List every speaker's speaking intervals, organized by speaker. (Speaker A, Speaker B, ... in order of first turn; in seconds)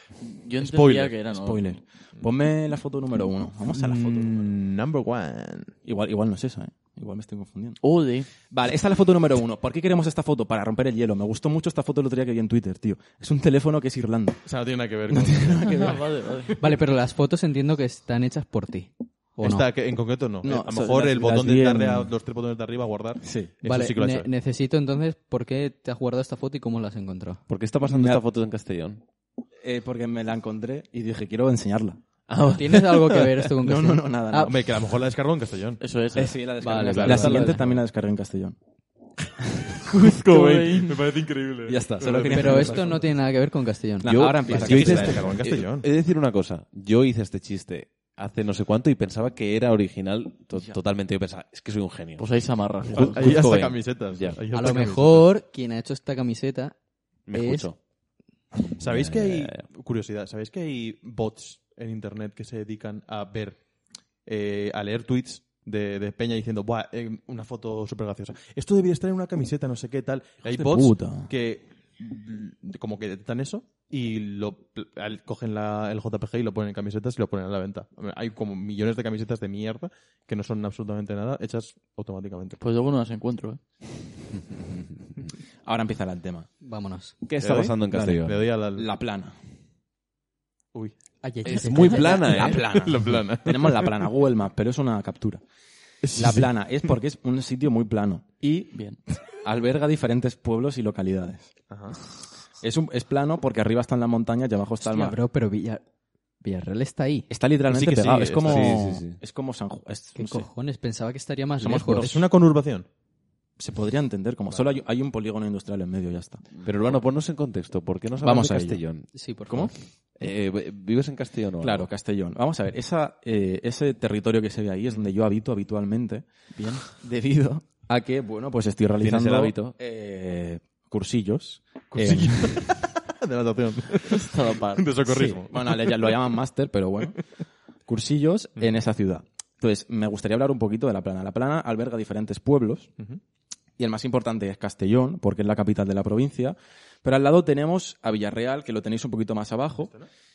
Speaker A: 0.2-1.8, 7.8-8.3, 15.7-16.6, 35.8-37.2, 40.2-41.0, 52.2-53.4, 82.6-83.9, 98.7-99.0, 126.5-126.9, 134.1-134.9
Speaker B: 0.6-1.2, 3.7-5.7, 14.4-15.9, 19.4-24.3, 34.5-35.8, 40.0-42.9, 44.5-45.9, 53.0-55.3, 58.8-63.6, 64.2-82.6, 87.4-88.9, 92.3-93.9, 96.0-96.5, 101.7-102.0, 107.7-108.8, 111.9-112.9, 131.9-136.1
Speaker C: 1.2-4.5, 5.8-7.8, 8.5-14.4, 15.1-16.2, 20.4-22.1, 23.2-23.6, 27.9-28.2, 29.6-32.0, 33.6-34.6, 36.1-38.5, 41.7-43.0, 44.0-45.4, 70.5-71.3, 85.6-86.5, 87.8-89.3, 91.8-95.4, 96.1-101.5, 102.6-105.2, 107.3-110.5, 111.6-112.2, 113.6-116.5, 118.2-118.8, 119.5-119.7, 121.6-126.2, 126.9-132.8, 135.0-137.2, 137.8-142.9, 143.8-149.9
Speaker D: 16.6-19.6, 23.6-27.4, 32.5-34.5, 36.6-37.7, 42.3-44.6, 54.5-56.7, 57.3-57.7, 86.6-87.1, 91.2-92.4, 104.8-105.8, 106.4-107.3, 110.2-112.2, 119.1-119.7
Speaker E: 27.5-29.0, 32.3-33.3, 44.0-52.3, 52.9-54.4, 57.3-57.8, 58.7-59.6, 87.3-88.5, 91.4-92.7, 107.7-109.2, 116.6-119.1, 120.2-121.9, 129.0-129.8